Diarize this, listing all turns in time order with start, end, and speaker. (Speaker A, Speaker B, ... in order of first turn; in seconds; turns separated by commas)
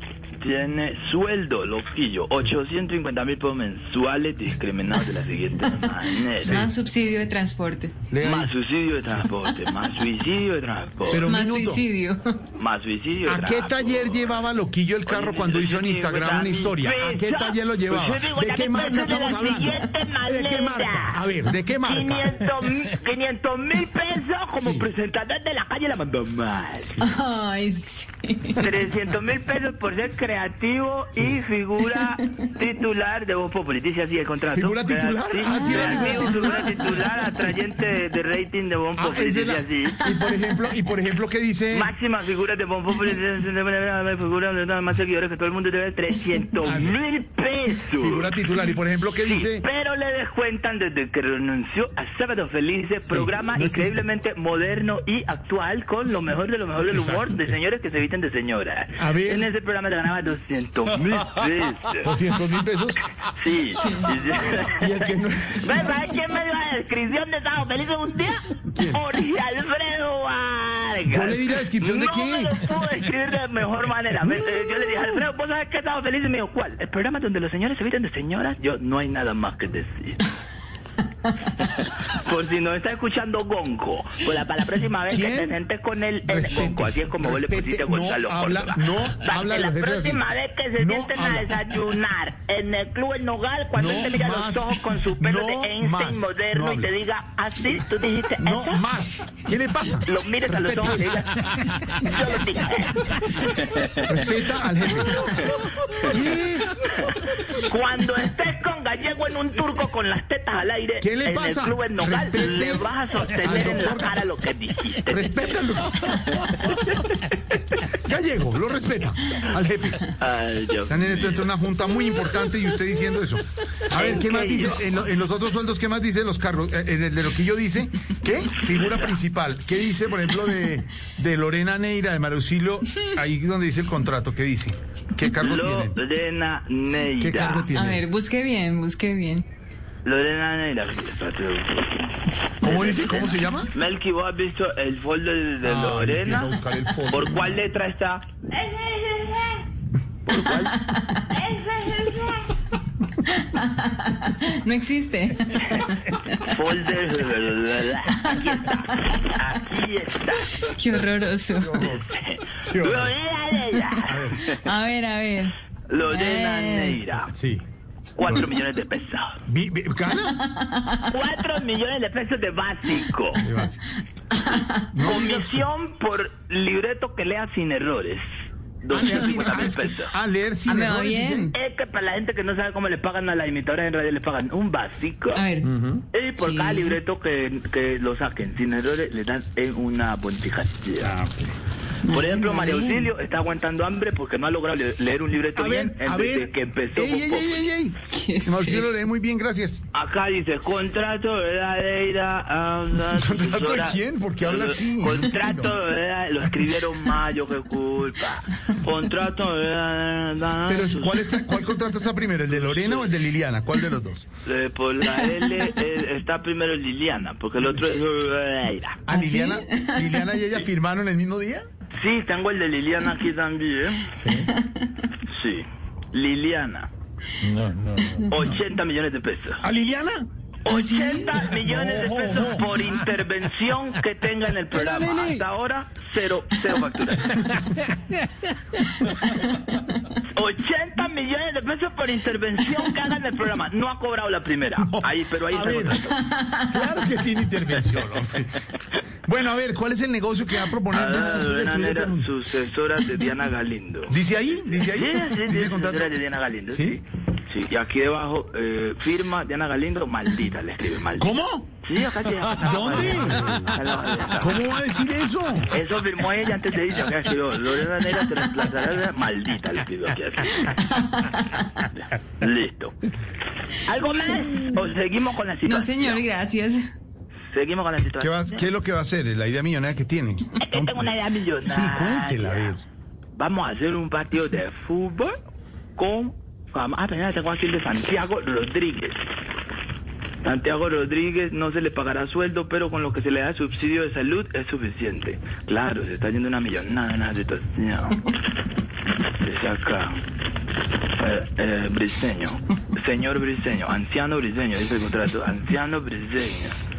Speaker A: 0.4-6.7, Speaker B: 6.4-7.9, Speaker C: 8.1-8.5, Speaker A: 8.2-11.3, Speaker C: 11.1-11.8, Speaker B: 11.2-12.3, Speaker A: 12.6-14.4, Speaker C: 13.2-22.7, Speaker A: 15.1-21.2, Speaker A: 21.8-26.9, Speaker C: 24.6-24.9, Speaker B: 27.0-28.7, Speaker A: 28.6-40.0, Speaker C: 31.1-31.4, Speaker C: 34.5-37.1, Speaker B: 35.5-36.7, Speaker C: 39.0-41.9, Speaker A: 41.7-48.3, Speaker C: 46.6-47.0, Speaker C: 48.0-49.6, Speaker A: 49.2-62.1, Speaker C: 53.0-54.0, Speaker C: 56.9-57.5, Speaker C: 59.0-59.5, Speaker C: 62.0-63.1, Speaker A: 63.3-80.2, Speaker C: 64.4-66.1, Speaker C: 68.7-69.0, Speaker C: 71.1-72.5, Speaker A: 81.6-98.8, Speaker C: 85.1-85.6, Speaker C: 86.2-90.2, Speaker C: 90.8-91.5, Speaker C: 93.7-96.9, Speaker C: 98.4-101.2, Speaker A: 100.0-104.2, Speaker C: 103.9-106.9, Speaker A: 106.9-115.6, Speaker C: 111.0-114.2, Speaker C: 115.0-116.7, Speaker A: 116.7-117.2, Speaker C: 117.9-120.1, Speaker A: 120.2-121.4, Speaker C: 120.9-135.9, Speaker A: 123.9-124.8, Speaker A: 128.6-129.1, Speaker A: 135.4-137.7, Speaker C: 137.2-138.0, Speaker B: 137.7-139.4, Speaker A: 140.0-142.1, Speaker C: 142.6-143.7, Speaker A: 142.6-146.5, Speaker C: 145.6-147.6, Speaker A: 147.1-149.6, Speaker A: 150.2-152.5, Speaker B: 150.7-151.2, Speaker B: 153.2-156.5, Speaker A: 156.4-160.5, Speaker B: 160.6-161.8, Speaker C: 161.6-162.0, Speaker A: 161.8-164.6, Speaker C: 162.6-163.1, Speaker C: 164.1-164.4, Speaker B: 164.4-167.0, Speaker A: 165.9-167.3, Speaker C: 167.3-167.7, Speaker A: 168.2-169.4, Speaker C: 168.2-168.5, Speaker C: 169.4-170.4, Speaker B: 170.4-171.0, Speaker A: 171.0-173.4, Speaker C: 173.4-173.8, Speaker B: 174.4-174.8, Speaker C: 174.9-175.6, Speaker A: 175.0-178.2, Speaker A: 178.8-180.1, Speaker C: 178.9-181.5, Speaker B: 180.7-181.5, Speaker A: 181.5-185.4, Speaker B: 185.3-185.7, Speaker C: 185.6-186.0, Speaker A: 186.1-191.1, Speaker B: 186.3-187.0, Speaker C: 191.0-191.5, Speaker B: 192.1-193.1, Speaker A: 192.1-197.7, Speaker C: 195.5-199.8, Speaker B: 198.1-199.0, Speaker A: 199.9-211.4, Speaker C: 202.9-205.7, Speaker C: 210.7-214.2, Speaker A: 212.5-213.1, Speaker A: 214.4-219.0, Speaker C: 219.1-221.7, Speaker B: 219.1-220.1, Speaker A: 222.0-224.1, Speaker B: 224.5-224.9, Speaker A: 225.3-226.9, Speaker A: 228.2-229.6, Speaker C: 229.6-230.2, Speaker A: 230.6-237.4, Speaker B: 230.7-231.2, Speaker C: 231.5-232.8, Speaker A: 240.3-246.2, Speaker C: 244.8-246.0, Speaker C: 246.6-248.6, Speaker C: 249.2-252.3, Speaker A: 250.9-254.2, Speaker C: 254.1-256.1, Speaker A: 254.8-261.3, Speaker C: 256.7-257.0, Speaker C: 261.2-261.8, Speaker A: 261.8-264.6, Speaker C: 262.3-263.7, Speaker C: 264.3-265.7, Speaker A: 265.7-270.8, Speaker B: 270.8-271.6, Speaker A: 271.9-273.0, Speaker A: 273.8-276.2, Speaker B: 275.6-276.8, Speaker A: 277.5-278.7, Speaker C: 278.2-281.1, Speaker A: 280.6-282.7, Speaker C: 281.6-282.8, Speaker A: 283.3-285.3, Speaker A: 285.9-289.2, Speaker A: 290.4-298.2, Speaker A: 299.3-300.2, Speaker A: 301.1-306.8